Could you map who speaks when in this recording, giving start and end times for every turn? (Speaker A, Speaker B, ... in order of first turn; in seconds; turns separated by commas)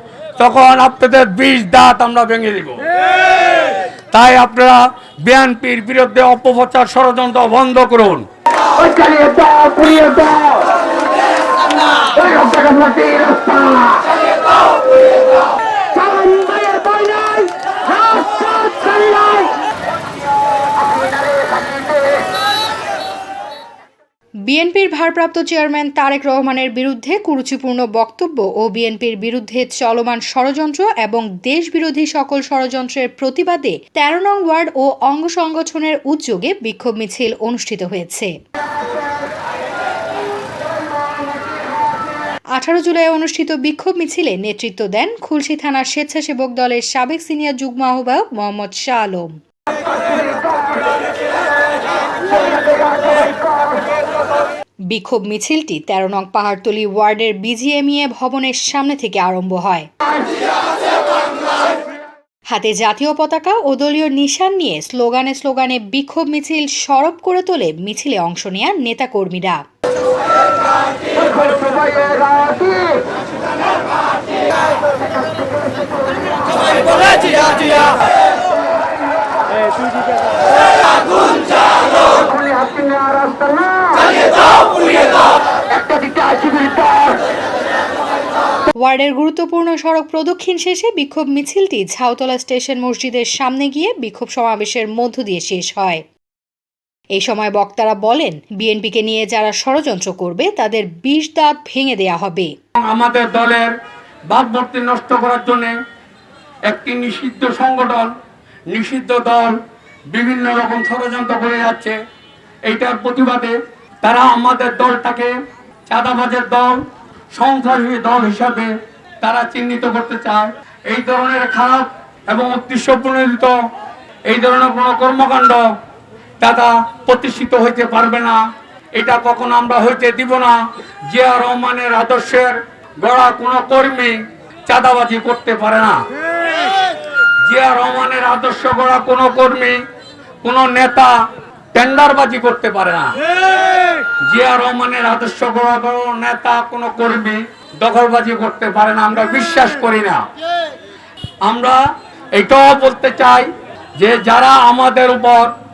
Speaker A: 0.4-2.8, Speaker A: 4.1-8.2, Speaker B: 8.8-10.7, Speaker B: 12.2-14.0, Speaker B: 15.9-19.5, Speaker B: 20.8-22.0, Speaker C: 24.5-38.3, Speaker C: 42.5-49.3, Speaker B: 52.7-53.3, Speaker C: 54.9-59.9, Speaker C: 62.5-69.6, Speaker B: 71.2-73.0, Speaker B: 82.3-84.0, Speaker B: 85.8-87.0, Speaker C: 88.8-96.0, Speaker C: 97.2-102.5, Speaker A: 102.8-103.7, Speaker A: 104.3-105.7, Speaker A: 106.7-108.1, Speaker A: 108.7-109.5, Speaker A: 110.1-112.0, Speaker A: 112.7-115.3, Speaker A: 115.9-116.8, Speaker A: 117.3-123.5, Speaker A: 124.3-125.6, Speaker A: 126.4-128.4, Speaker A: 128.9-130.6, Speaker A: 131.1-134.2, Speaker A: 134.7-136.0, Speaker A: 137.4-139.8, Speaker A: 140.4-141.1, Speaker A: 141.7-143.1, Speaker A: 144.2-150.2, Speaker A: 151.4-151.8, Speaker A: 152.3-155.5